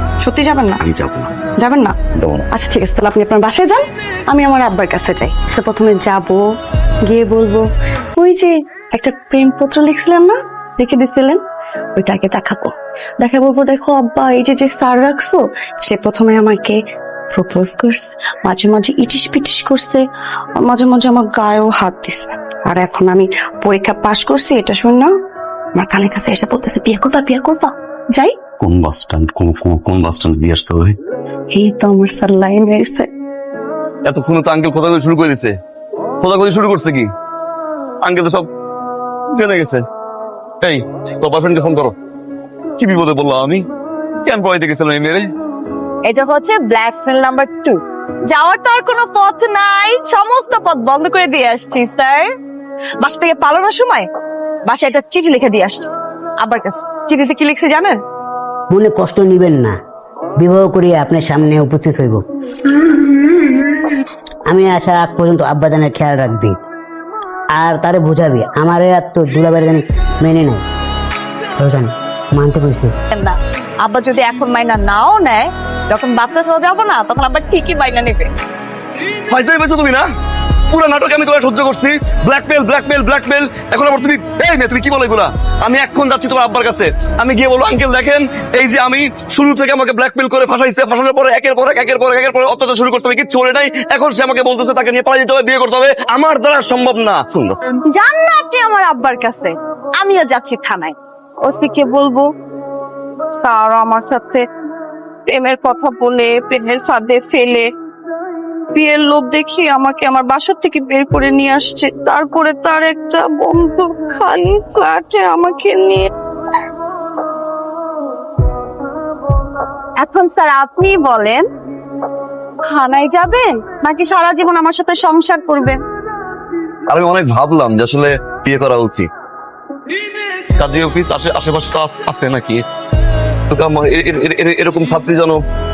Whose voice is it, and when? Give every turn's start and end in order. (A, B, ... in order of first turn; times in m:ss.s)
0:00.2-0:00.8 A
0:00.8-0:01.3 B
0:01.6-0:01.9 A
0:02.2-0:02.5 B
0:02.5-0:06.5 A
0:07.0-0:11.4 A
0:11.9-0:16.8 A
0:17.3-0:20.0 A
0:20.6-0:25.1 A
0:25.7-0:28.4 A
0:28.6-0:31.0 B
0:31.5-0:33.1 A
0:34.0-0:35.6 B
0:36.2-0:37.1 B
0:38.0-0:38.5 B
0:39.3-0:39.8 B
0:40.6-0:41.9 B
0:42.8-0:43.7 B
0:44.2-0:45.3 B
0:46.0-0:52.3 A
0:53.0-0:54.1 A
0:54.6-0:58.0 A
0:58.7-0:59.8 C
1:00.4-1:02.2 C
1:04.5-1:06.6 C
1:07.5-1:10.6 C
1:11.6-1:12.9 C
1:13.1-1:18.3 A
1:19.3-1:20.1 B
1:20.7-1:37.6 B
1:37.9-1:42.3 A
1:43.4-1:44.4 A
1:45.3-1:47.7 A
1:48.7-1:56.1 A
2:00.0-2:01.4 A
2:02.7-2:05.8 A
2:06.9-2:09.1 B
2:10.5-2:12.6 B
2:13.5-2:15.4 B